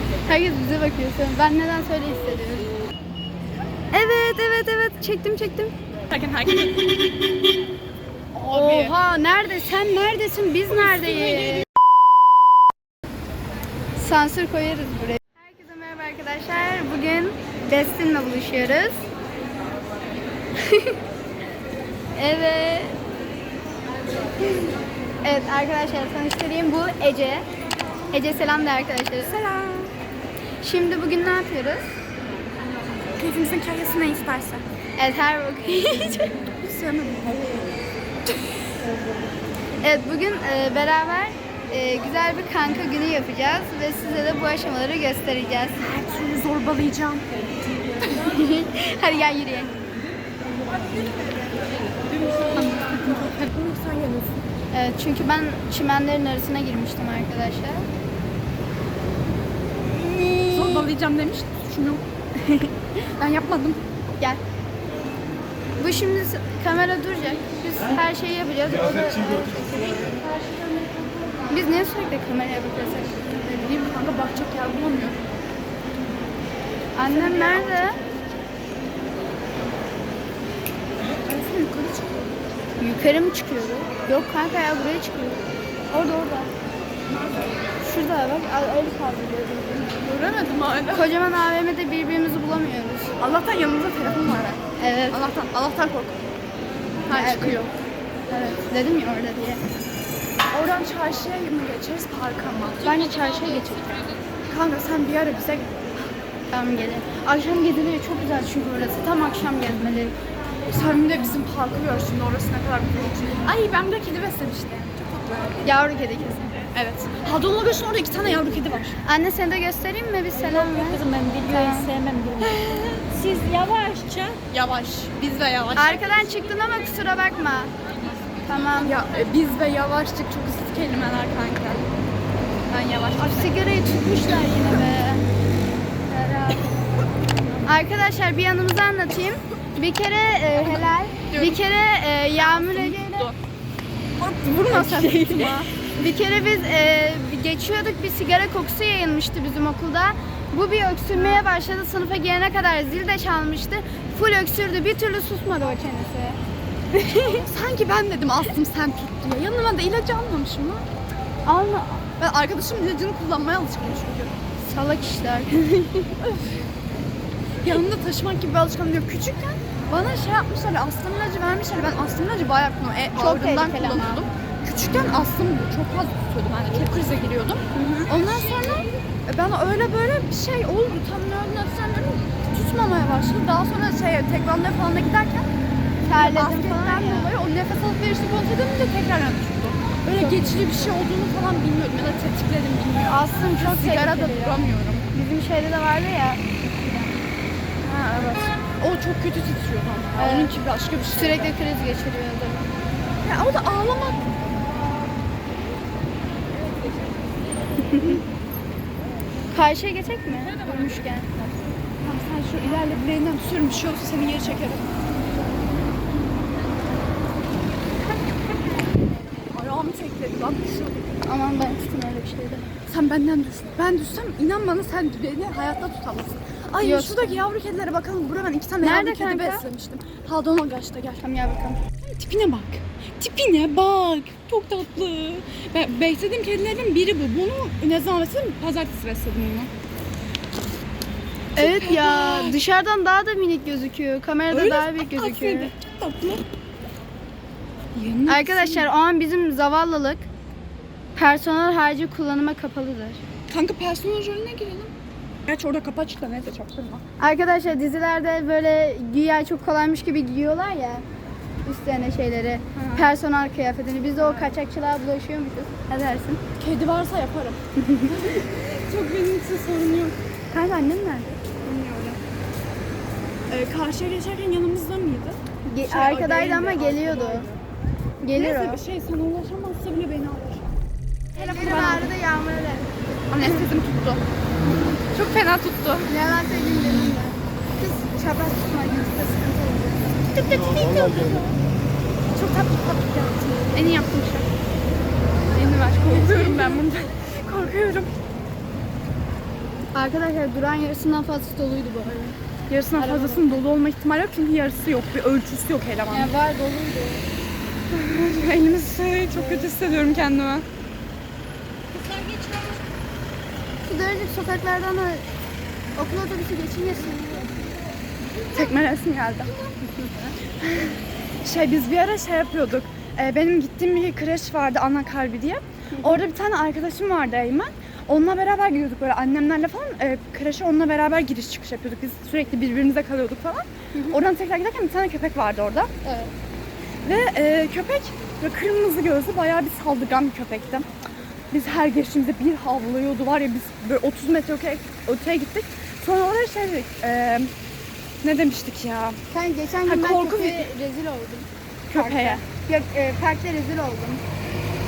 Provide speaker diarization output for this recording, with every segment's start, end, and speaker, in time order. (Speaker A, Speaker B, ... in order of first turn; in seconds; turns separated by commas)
Speaker A: 0.3-2.7, Speaker A: 3.9-5.7, Speaker B: 6.1-7.1, Speaker B: 8.3-8.9, Speaker A: 8.5-11.7, Speaker B: 10.8-11.6, Speaker A: 13.9-19.0, Speaker A: 20.6-20.9, Speaker A: 22.1-23.0, Speaker A: 25.2-27.4, Speaker A: 28.1-29.4, Speaker B: 29.2-29.9, Speaker A: 30.6-31.9, Speaker B: 33.1-34.6, Speaker A: 35.0-36.3, Speaker B: 36.6-37.7, Speaker A: 39.8-45.8, Speaker B: 45.8-47.3, Speaker A: 48.0-49.7, Speaker B: 50.6-54.4, Speaker A: 54.7-57.9, Speaker A: 60.0-60.9, Speaker B: 60.5-62.0, Speaker A: 62.4-62.7, Speaker B: 63.1-63.8, Speaker A: 65.8-70.1, Speaker A: 71.5-73.3, Speaker B: 73.4-75.2, Speaker A: 76.9-78.0, Speaker B: 77.0-78.0, Speaker B: 81.0-82.5, Speaker A: 82.8-86.5, Speaker B: 87.1-87.5, Speaker A: 87.8-90.0, Speaker B: 90.0-91.1, Speaker A: 90.9-93.1, Speaker B: 93.2-96.2, Speaker A: 94.8-95.2, Speaker B: 97.1-97.7, Speaker A: 97.1-97.6, Speaker A: 98.3-99.6, Speaker B: 100.5-103.1, Speaker A: 102.8-104.0, Speaker C: 103.3-103.6, Speaker B: 104.5-106.1, Speaker A: 106.5-110.1, Speaker B: 110.7-115.6, Speaker A: 115.6-116.5, Speaker B: 116.7-119.0, Speaker A: 119.0-121.9, Speaker C: 120.3-124.4, Speaker B: 122.4-123.1, Speaker B: 124.5-126.3, Speaker A: 125.7-127.7, Speaker A: 128.4-128.9, Speaker B: 128.8-131.9, Speaker B: 132.7-133.6, Speaker A: 133.2-135.2, Speaker A: 136.1-136.7, Speaker A: 137.6-143.3, Speaker B: 140.6-141.6, Speaker B: 142.4-143.3, Speaker B: 144.2-145.7, Speaker A: 144.7-156.4, Speaker A: 156.9-157.4, Speaker B: 157.1-160.8, Speaker A: 161.4-162.0, Speaker B: 162.2-164.3, Speaker A: 164.7-166.1, Speaker B: 167.6-185.5, Speaker A: 173.2-174.2, Speaker A: 177.7-178.1, Speaker A: 186.0-187.3, Speaker B: 186.1-195.1, Speaker A: 190.2-190.5, Speaker A: 193.1-197.1, Speaker B: 197.8-201.5, Speaker A: 200.2-200.5, Speaker A: 201.1-202.6, Speaker B: 203.2-204.2, Speaker A: 207.8-208.2, Speaker A: 209.5-211.3, Speaker B: 210.4-211.1, Speaker B: 212.0-215.0, Speaker B: 219.5-221.1, Speaker A: 221.2-222.7, Speaker B: 222.9-231.3, Speaker A: 226.8-227.4, Speaker A: 228.8-229.6, Speaker A: 231.2-231.8, Speaker B: 231.9-239.7, Speaker B: 241.5-242.6, Speaker A: 241.6-245.7, Speaker B: 244.5-246.4, Speaker B: 247.9-248.9, Speaker A: 248.3-250.3, Speaker A: 251.2-253.2, Speaker B: 253.5-254.9, Speaker B: 255.5-257.0, Speaker A: 257.2-261.0, Speaker A: 261.6-266.4, Speaker B: 262.7-263.1, Speaker B: 264.2-264.5, Speaker B: 266.6-271.3, Speaker A: 267.8-268.3, Speaker A: 271.6-272.2, Speaker B: 273.5-277.5, Speaker A: 275.6-277.5, Speaker A: 278.2-278.8, Speaker B: 278.3-280.7, Speaker B: 281.3-282.1, Speaker A: 281.3-283.6, Speaker B: 283.3-284.2, Speaker B: 285.1-286.1, Speaker A: 286.1-290.2, Speaker B: 290.3-291.6, Speaker B: 292.3-294.5, Speaker B: 295.5-298.1, Speaker A: 295.7-296.9, Speaker A: 299.9-302.4, Speaker B: 302.7-306.3, Speaker A: 303.0-303.6, Speaker A: 306.1-307.2, Speaker B: 307.9-310.6, Speaker A: 309.3-309.7, Speaker A: 312.0-312.5, Speaker A: 313.8-315.2, Speaker A: 315.9-317.5, Speaker B: 318.5-319.5, Speaker A: 319.5-320.3, Speaker B: 320.6-335.9, Speaker A: 333.9-334.2, Speaker A: 336.0-336.3, Speaker B: 337.0-340.9, Speaker B: 341.5-347.5, Speaker B: 348.2-349.2, Speaker A: 349.3-354.2, Speaker B: 349.9-350.7, Speaker B: 351.9-352.4